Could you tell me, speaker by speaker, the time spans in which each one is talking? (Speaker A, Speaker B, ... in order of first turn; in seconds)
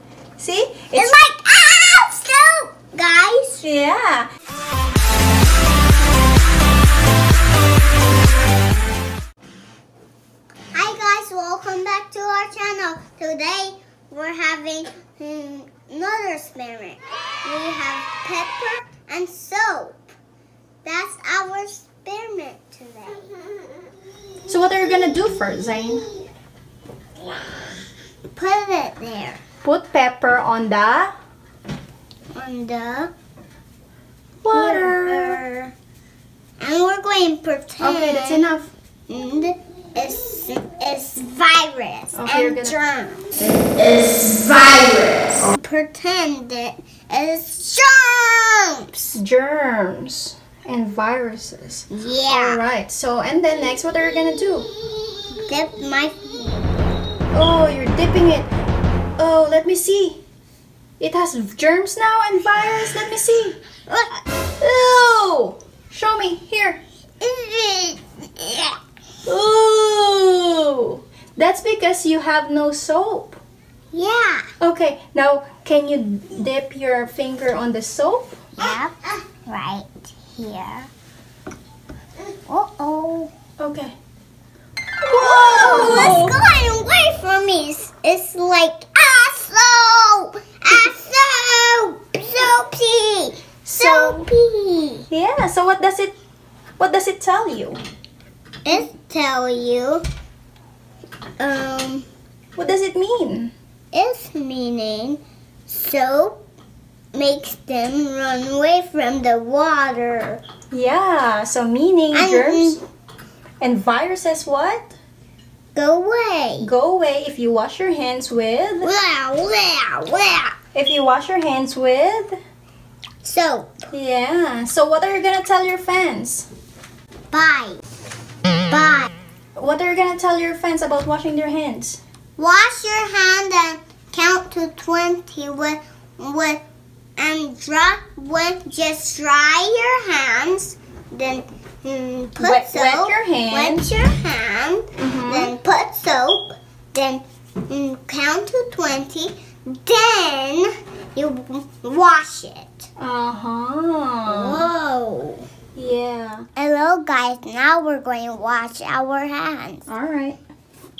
Speaker A: 0.4-1.2, 3.6-4.3, 24.5-26.1, 29.6-31.1, 34.4-35.4, 37.8-38.7, 42.1-42.8, 43.5-45.5, 49.1-54.7, 57.3-58.5, 59.2-60.2, 61.0-63.6, 64.6-66.8, 69.2-73.4, 74.6-78.6, 83.6-83.9, 85.0-86.4, 93.6-94.3, 95.1-96.1, 96.8-97.8, 102.5-103.5, 110.7-112.8, 113.6-115.0, 116.6-118.9, 120.7-122.4, 123.9-126.5, 129.6-132.0, 142.4-143.9, 145.0-145.5, 153.0-154.7, 155.8-156.5, 159.9-160.4
Speaker B: 0.9-3.6, 10.7-20.1, 20.8-23.3, 28.3-29.4, 32.3-33.1, 34.5-35.7, 36.6-38.5, 39.1-43.4, 45.5-49.2, 51.9-52.6, 55.3-57.0, 63.9-64.2, 67.2-68.8, 73.9-74.5, 78.6-80.9, 82.5-83.3, 85.2-95.1, 98.6-100.0, 101.4-102.1, 103.9-106.4, 107.1-110.4, 112.1-112.8, 115.7-116.7, 118.8-120.5, 123.2-123.8, 127.3-127.8, 128.7-129.1, 132.4-136.6, 137.2-152.9, 154.2-155.5, 156.6-159.8